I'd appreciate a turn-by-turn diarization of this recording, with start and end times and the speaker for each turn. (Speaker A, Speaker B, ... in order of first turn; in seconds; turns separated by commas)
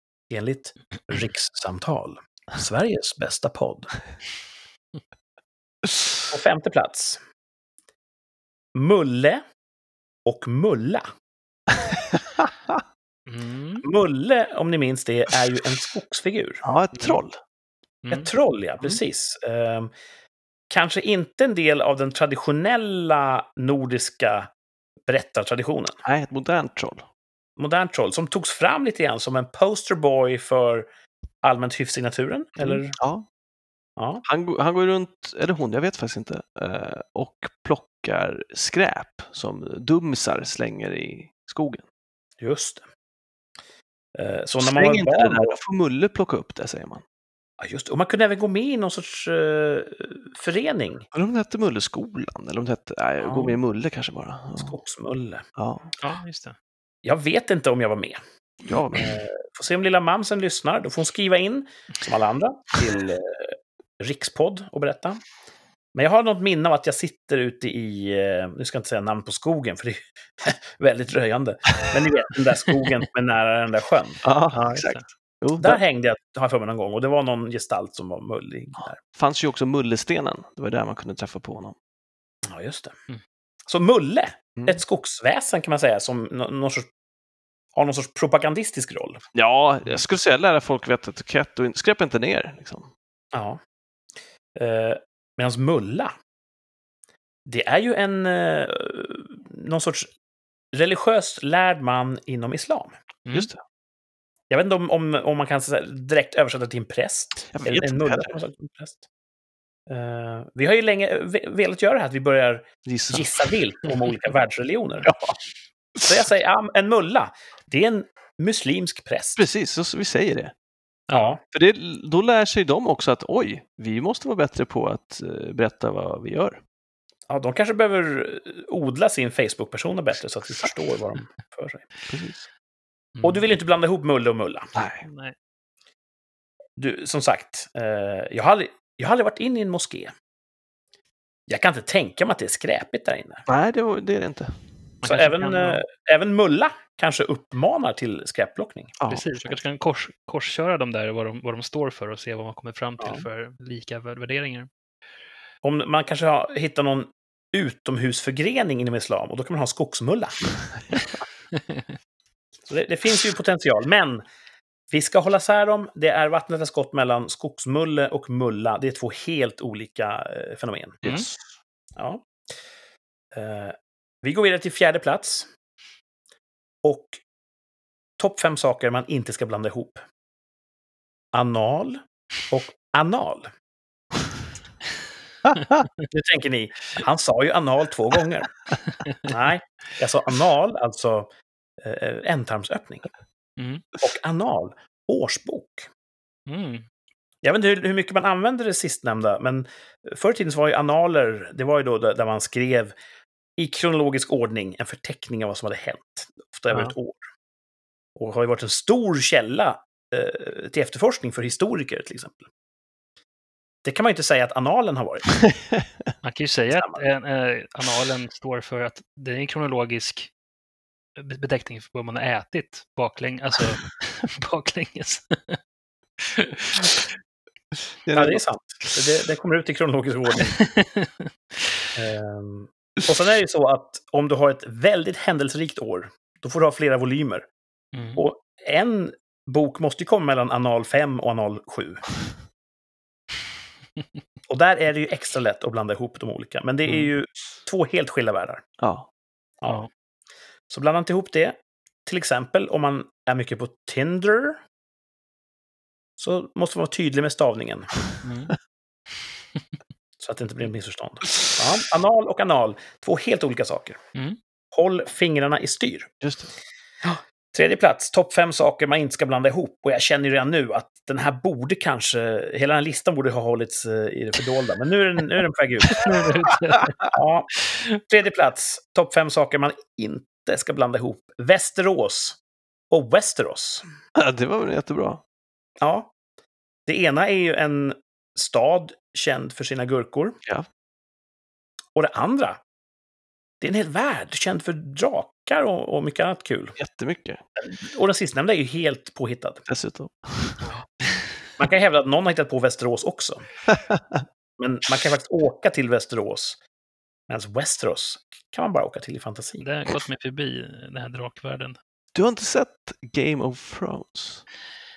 Speaker A: 0.3-3.9, Speaker A: 6.3-7.2, Speaker A: 8.7-9.4, Speaker A: 10.2-11.1, Speaker B: 13.3-13.8, Speaker A: 13.8-17.2, Speaker C: 16.6-17.4, Speaker B: 18.0-18.3, Speaker A: 18.1-19.9, Speaker A: 20.7-24.5, Speaker A: 25.1-26.0, Speaker C: 26.0-27.0, Speaker A: 27.6-30.9, Speaker A: 31.4-33.0, Speaker C: 32.6-33.2, Speaker A: 34.0-34.2, Speaker C: 34.2-41.8, Speaker A: 42.4-42.8, Speaker A: 44.1-45.6, Speaker C: 44.6-47.0, Speaker A: 47.6-51.1, Speaker C: 51.1-54.8, Speaker A: 53.2-53.6, Speaker A: 54.5-55.4, Speaker C: 55.6-55.9, Speaker B: 56.0-56.5, Speaker A: 57.0-58.2, Speaker C: 58.6-59.2, Speaker A: 58.9-65.2, Speaker A: 65.9-74.8, Speaker C: 74.2-75.8, Speaker A: 75.6-79.0, Speaker C: 79.0-81.7, Speaker A: 82.5-83.0, Speaker A: 83.7-86.9, Speaker A: 87.7-89.2, Speaker C: 89.3-92.9, Speaker A: 93.3-93.6, Speaker A: 94.5-96.1, Speaker A: 97.5-100.1, Speaker A: 100.7-102.9, Speaker C: 103.3-103.6, Speaker A: 104.5-109.0, Speaker C: 107.5-108.4, Speaker A: 109.9-115.1, Speaker C: 112.8-113.5, Speaker C: 115.0-115.4, Speaker A: 116.0-119.4, Speaker C: 119.4-120.5, Speaker B: 121.1-121.3, Speaker A: 121.1-121.4, Speaker C: 121.5-126.6, Speaker A: 127.3-131.9, Speaker C: 132.1-132.4, Speaker B: 133.2-133.4, Speaker A: 133.2-134.7, Speaker C: 134.7-135.0, Speaker B: 135.0-135.3, Speaker A: 136.8-140.1, Speaker A: 141.5-143.4, Speaker C: 143.5-144.6, Speaker B: 145.0-145.8, Speaker A: 145.0-148.9, Speaker C: 149.0-149.5, Speaker B: 149.1-154.7, Speaker A: 153.0-153.2, Speaker A: 155.6-160.4, Speaker B: 161.5-161.8, Speaker A: 162.7-164.2, Speaker A: 164.9-171.0, Speaker C: 171.0-171.4, Speaker A: 172.0-172.2, Speaker A: 173.3-175.5, Speaker A: 176.8-177.2, Speaker A: 178.2-180.0, Speaker A: 181.3-183.5, Speaker C: 185.5-185.8, Speaker A: 186.1-188.5, Speaker A: 189.2-191.3, Speaker A: 191.8-193.1, Speaker B: 193.6-193.8, Speaker A: 194.0-195.9, Speaker B: 196.5-196.8, Speaker A: 197.4-202.9, Speaker A: 203.6-207.2, Speaker A: 208.2-212.5, Speaker A: 213.8-215.4, Speaker B: 216.2-220.3, Speaker A: 216.7-217.0, Speaker B: 221.2-225.6, Speaker B: 226.2-227.0, Speaker C: 228.1-228.8, Speaker A: 228.1-230.6, Speaker B: 230.6-231.1, Speaker A: 231.9-237.5, Speaker B: 237.9-238.2, Speaker A: 238.2-242.0, Speaker A: 244.5-248.6, Speaker C: 248.8-249.1, Speaker A: 250.7-254.6, Speaker A: 256.2-257.9, Speaker B: 258.2-258.5, Speaker A: 260.2-264.0, Speaker A: 264.7-266.1, Speaker C: 266.2-266.5, Speaker A: 267.0-276.3, Speaker B: 276.0-277.0, Speaker A: 277.1-282.4, Speaker A: 282.9-283.8, Speaker C: 284.1-285.2, Speaker A: 285.8-286.1, Speaker A: 286.9-290.4, Speaker A: 291.9-292.6, Speaker A: 293.6-296.8, Speaker C: 296.8-297.4, Speaker A: 297.6-299.6, Speaker C: 299.7-300.7, Speaker A: 301.6-303.4, Speaker C: 303.7-304.2, Speaker A: 304.6-306.6, Speaker A: 307.3-309.6, Speaker B: 309.6-311.8, Speaker C: 312.1-314.4